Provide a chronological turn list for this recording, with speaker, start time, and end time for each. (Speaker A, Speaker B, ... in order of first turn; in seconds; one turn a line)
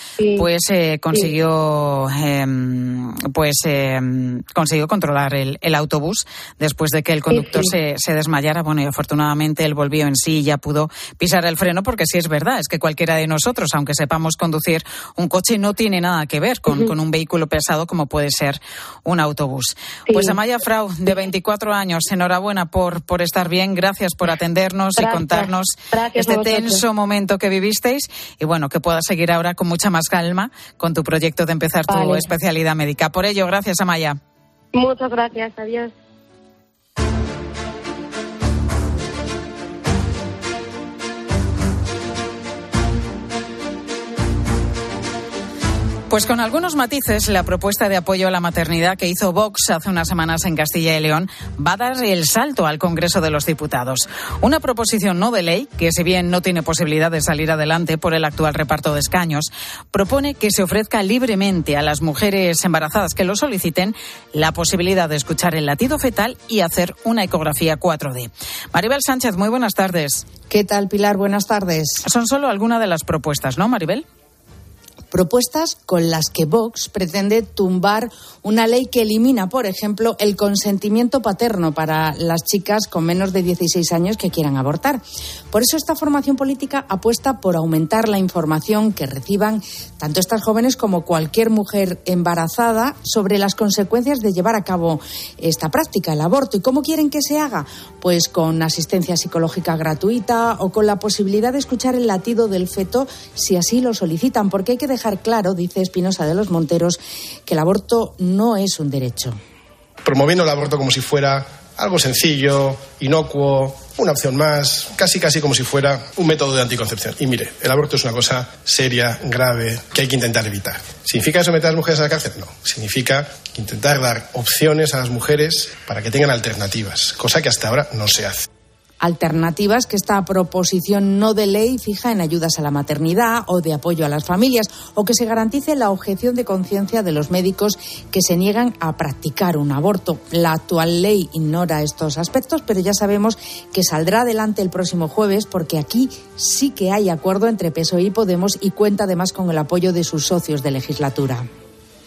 Speaker A: 0.2-0.5
Speaker B: 0.3-34.2
Speaker A: 7.3-7.7
Speaker A: 16.7-16.9
Speaker A: 20.1-20.4
Speaker A: 24.9-26.8
Speaker A: 31.9-32.2
Speaker A: 34.7-35.9
Speaker B: 46.1-70.3
Speaker C: 70.5-72.0
Speaker B: 72.0-74.0
Speaker C: 75.1-109.4
Speaker D: 110.1-128.3
Speaker C: 129.0-151.5